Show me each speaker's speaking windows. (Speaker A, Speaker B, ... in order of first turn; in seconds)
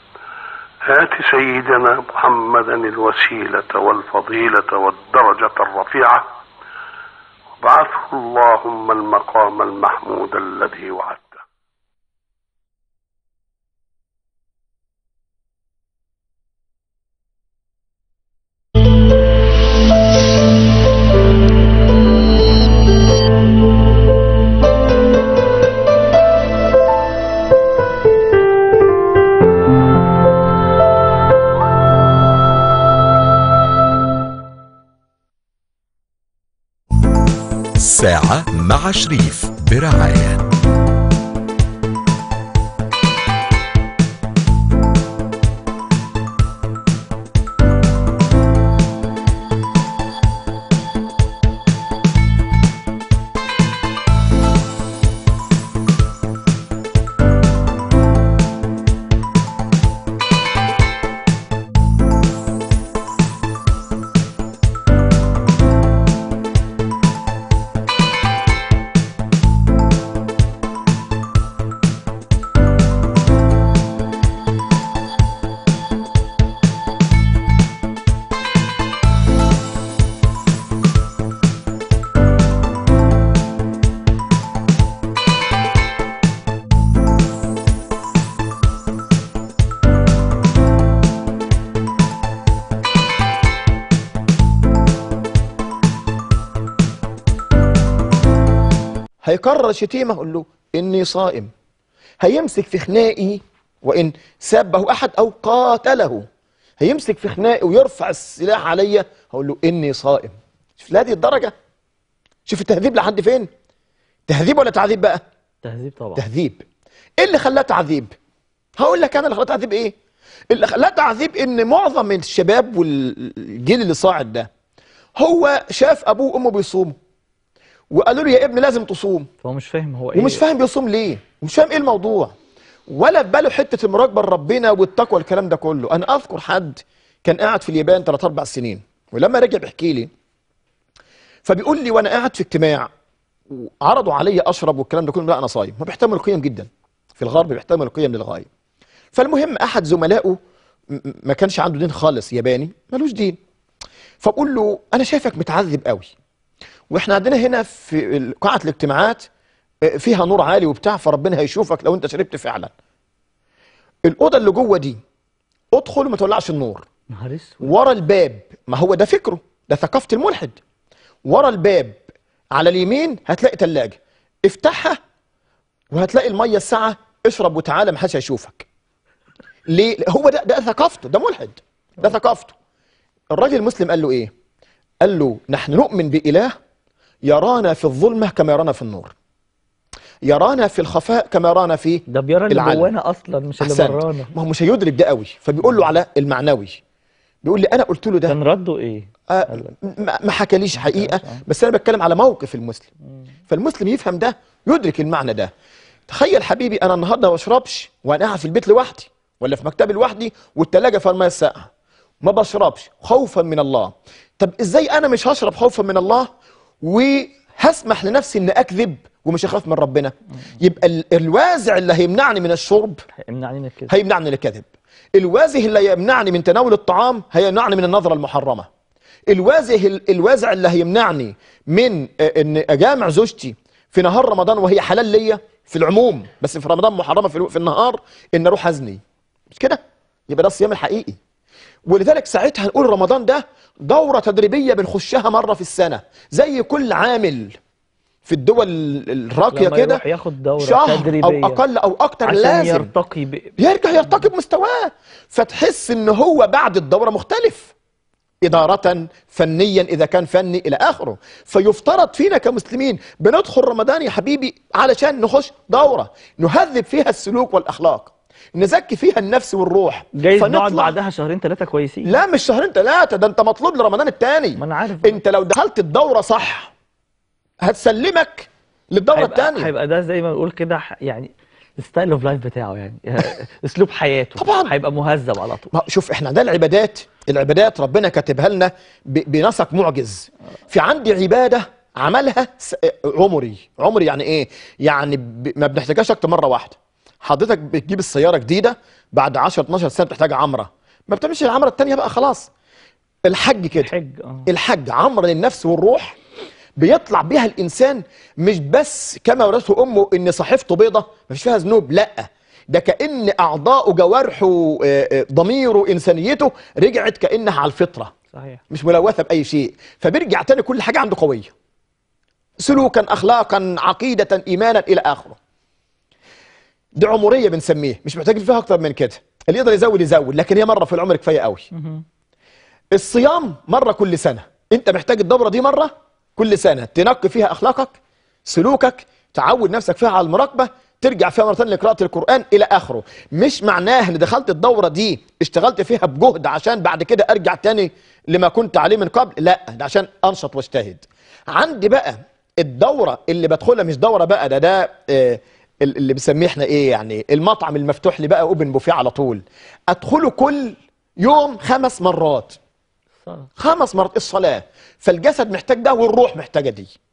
Speaker A: 0.8-6.2, 7.6-11.4
Speaker B: 37.8-40.5
Speaker C: 99.2-101.5, 102.2-106.2, 106.8-111.5, 112.5-113.5, 114.3-115.2, 116.2-116.6, 117.2-118.1, 118.8-119.9, 120.5-124.5, 125.2-127.0, 127.9-129.3, 130.1-132.3, 132.9-140.1, 141.4-142.9, 143.5-148.5, 149.1-150.4, 150.9-153.4, 154.2-156.1, 156.9-159.2, 159.8-162.7, 164.0-165.0, 165.7-166.9, 167.6-170.6, 171.2-172.0, 172.5-175.0, 175.9-178.7, 179.7-182.5, 183.3-184.3, 185.0-186.5, 187.2-189.1, 190.2-192.9, 193.6-196.8, 197.4-198.4, 199.3-202.9, 203.5-205.5, 206.1-211.7, 212.2-216.3, 216.8-223.0, 223.9-228.7, 229.3-241.2, 241.9-247.6, 248.2-250.0, 250.6-252.9, 253.6-257.7, 258.4-270.9, 272.0-276.7, 277.6-279.7, 284.4-284.7, 285.7-302.5, 303.2-303.9, 304.4-306.2, 306.8-318.1, 318.7-321.5, 322.6-325.4, 327.0-331.6, 332.9-362.6, 363.6-366.9
Speaker D: 115.6-116.2, 129.4-130.4, 167.1-167.7, 192.1-194.4, 198.3-199.7, 200.8-201.4, 223.2-223.9, 249.5-251.6, 252.2-253.5, 270.1-272.2, 274.6-275.2, 279.1-285.7, 303.7-304.5, 318.3-318.6, 331.7-332.0, 363.2-363.5